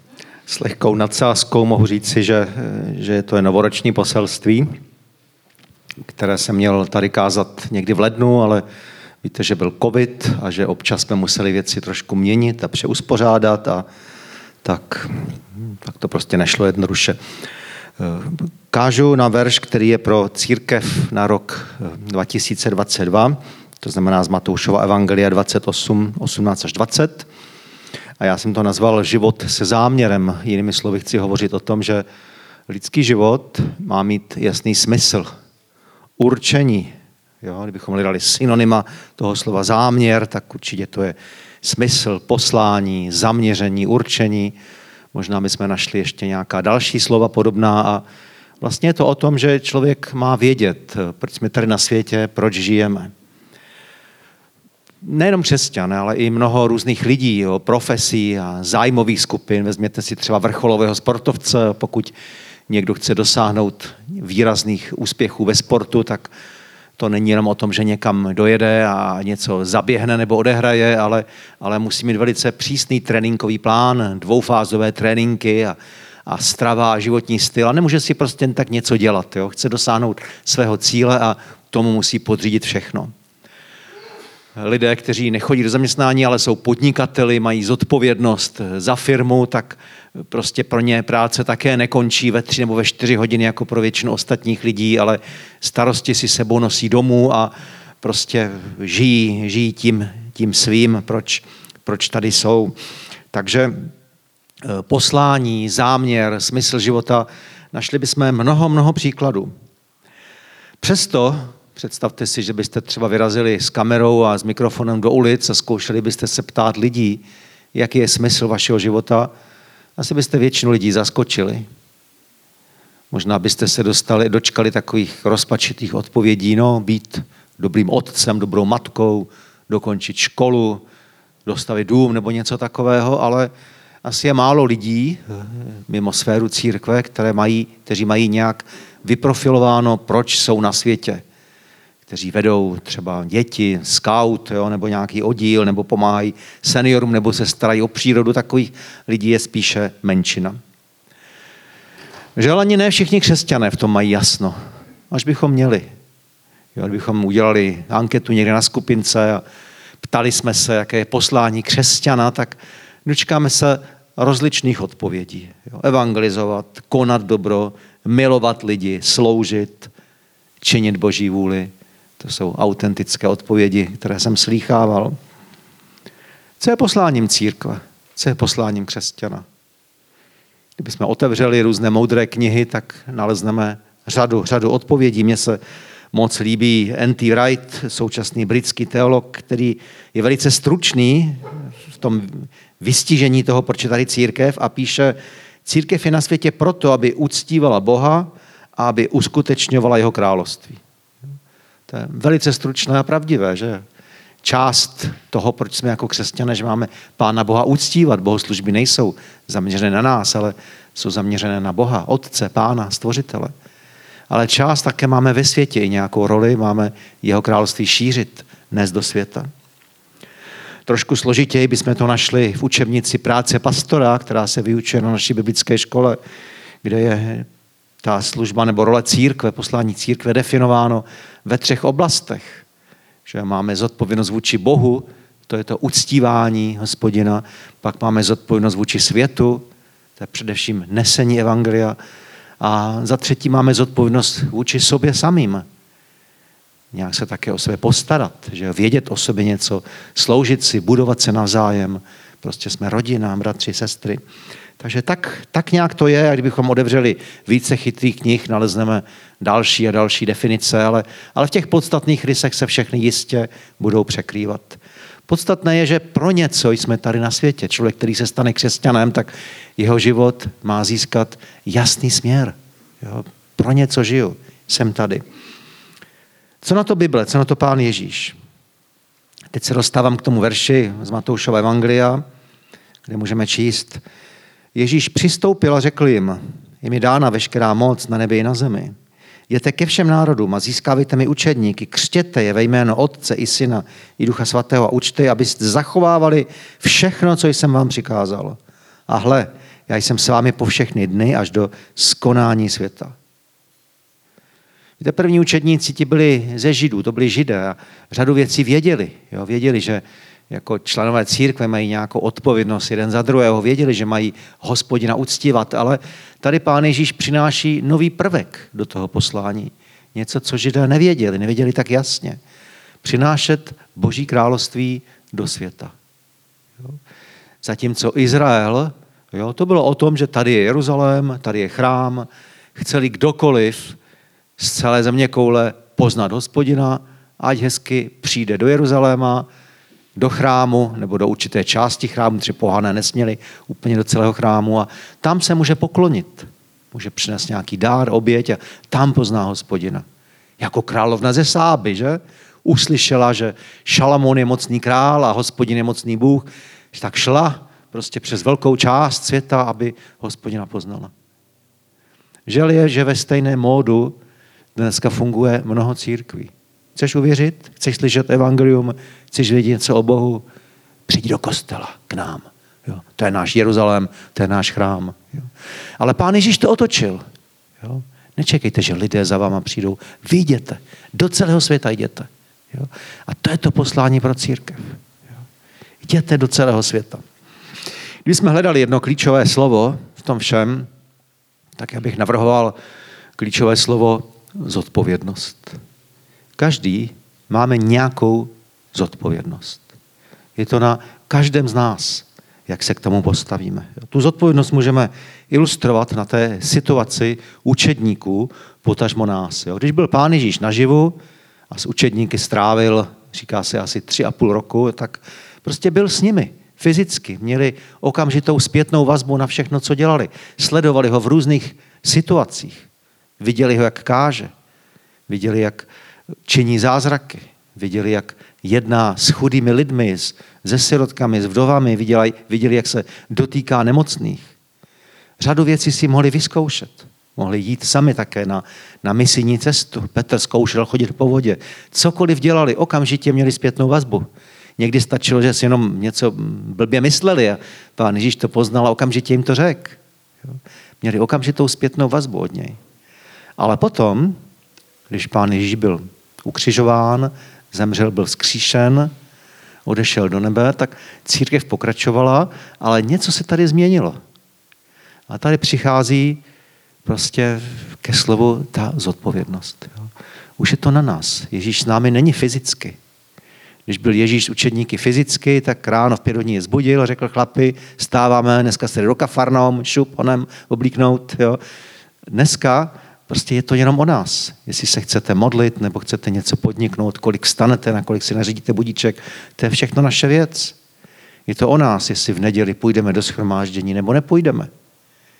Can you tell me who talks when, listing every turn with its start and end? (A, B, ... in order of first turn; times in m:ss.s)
0:00.5-0:04.7 A
0:06.1-0:08.6 A
0:09.2-0:13.8 A
0:14.6-0:17.2 A
0:18.0-0:27.3 A
0:28.2-0:32.0 A
0:32.7-0:35.3 A
0:36.2-0:44.6 A
0:45.1-0:48.0 A
0:48.6-0:53.1 A
0:55.0-1:02.1 A
1:02.7-1:06.3 A
1:07.0-1:23.1 A
1:24.6-1:42.7 A
1:43.3-1:43.9 A
1:44.6-1:49.5 A
1:50.8-1:59.3 A
2:00.0-2:01.6 A
2:03.1-2:10.8 A
2:11.4-2:13.5 A
2:14.0-2:21.2 A
2:22.1-2:30.6 A
2:32.4-2:34.6 A
2:35.1-2:35.9 A
2:36.7-2:39.4 A
2:40.0-2:49.9 A
2:50.6-2:55.2 A
2:56.6-2:59.4 A
3:00.8-3:05.6 A
3:06.1-3:20.8 A
3:21.9-3:23.8 A
3:24.4-3:33.5 A
3:34.3-3:39.5 A
3:40.9-3:46.2 A
3:46.8-3:47.5 A
3:48.0-3:52.6 A
3:53.3-3:59.6 A
4:00.2-4:02.0 A
4:02.6-4:05.6 A
4:06.9-4:14.2 A
4:14.8-4:35.2 A
4:36.6-4:38.4 A
4:39.5-4:42.2 A
4:43.0-4:44.0 A
4:44.7-4:48.9 A
4:49.5-5:03.1 A
5:05.0-5:22.4 A
5:23.0-5:25.9 A
5:27.6-5:34.0 A
5:34.6-5:39.5 A
5:40.2-5:50.0 A
5:50.6-6:01.1 A
6:02.5-6:04.2 A
6:04.7-6:10.4 A
6:11.1-6:15.5 A
6:16.0-6:17.2 A
6:17.8-6:25.0 A
6:26.0-6:27.2 A
6:28.2-6:30.9 A
6:31.8-6:32.8 A
6:33.4-6:35.8 A
6:36.6-6:39.8 A
6:40.6-6:51.2 A
6:51.7-7:02.8 A
7:03.4-7:04.5 A
7:05.3-7:05.9 A
7:06.5-7:14.5 A
7:15.4-7:24.3 A
7:24.8-7:30.0 A
7:31.0-7:32.8 A
7:33.6-7:34.4 A
7:35.1-7:39.1 A
7:39.8-7:44.2 A
7:45.3-7:46.4 A
7:47.0-7:50.0 A
7:50.6-7:53.0 A
7:53.9-8:01.6 A
8:02.3-8:10.8 A
8:11.5-8:14.7 A